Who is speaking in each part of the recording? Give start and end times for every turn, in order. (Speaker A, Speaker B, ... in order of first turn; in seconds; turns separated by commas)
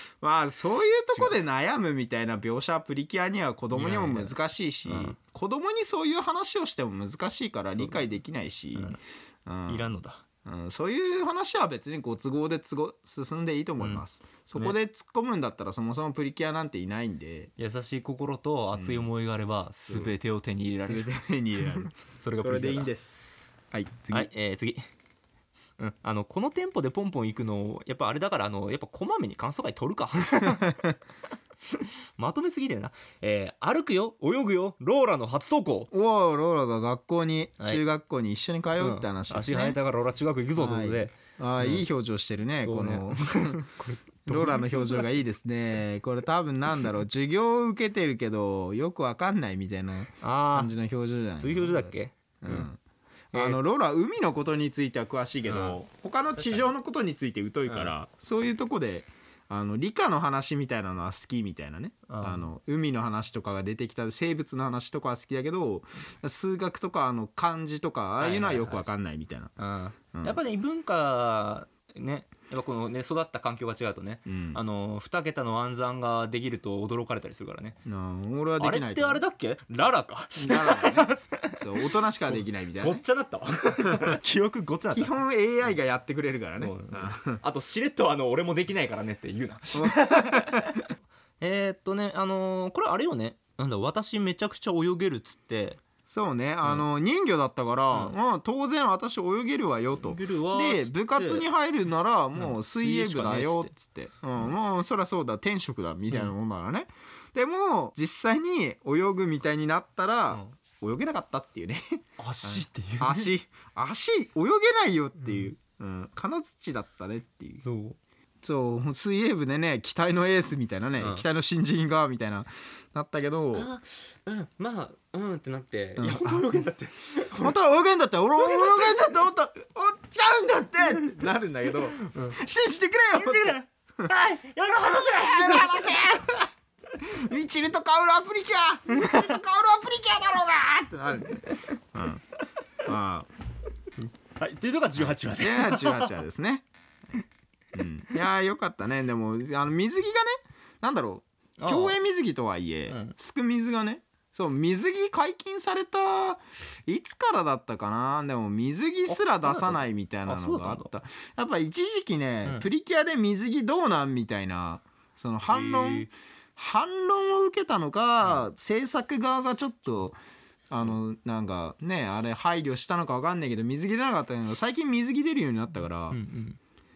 Speaker A: 0.2-9.9, Speaker B: 3.7-5.2, Speaker B: 7.8-8.1, Speaker B: 8.7-9.0, Speaker B: 9.7-10.2, Speaker A: 10.4-17.5, Speaker B: 17.6-21.1, Speaker A: 18.7-19.1, Speaker A: 20.8-24.3, Speaker B: 21.7-22.9, Speaker B: 24.1-24.9, Speaker B: 25.8-30.8, Speaker A: 30.5-30.9, Speaker B: 31.7-35.9, Speaker A: 35.9-39.8, Speaker B: 38.8-41.9, Speaker A: 40.6-43.7, Speaker B: 42.6-45.1, Speaker A: 44.3-52.8, Speaker B: 50.2-50.7, Speaker B: 51.4-52.7, Speaker B: 53.3-53.6, Speaker A: 53.3-69.5, Speaker B: 55.5-55.8, Speaker B: 56.4-56.7, Speaker B: 57.7-57.9, Speaker B: 62.1-62.5, Speaker B: 68.2-68.9, Speaker B: 69.6-77.8, Speaker A: 70.1-70.4, Speaker A: 74.3-74.6, Speaker A: 77.9-79.2, Speaker B: 78.6-85.1, Speaker A: 80.4-83.0, Speaker A: 83.9-84.2, Speaker A: 84.9-87.4, Speaker B: 86.6-95.8, Speaker A: 89.7-90.8, Speaker A: 96.1-117.6, Speaker B: 100.0-101.5, Speaker B: 102.4-103.7, Speaker B: 112.2-113.3, Speaker B: 117.6-118.0, Speaker A: 118.4-123.7, Speaker B: 121.0-121.2, Speaker B: 123.5-127.6, Speaker A: 126.0-126.5, Speaker A: 127.3-134.1, Speaker B: 128.4-129.2, Speaker B: 132.0-132.4, Speaker B: 133.2-136.2, Speaker A: 135.0-142.2, Speaker B: 138.9-139.4, Speaker A: 142.8-143.3, Speaker B: 144.4-146.1, Speaker A: 145.0-147.2, Speaker A: 147.7-170.2, Speaker B: 151.6-152.0, Speaker B: 152.9-153.2, Speaker B: 159.1-160.9, Speaker B: 165.5-166.1, Speaker A: 170.7-176.2, Speaker B: 176.1-176.6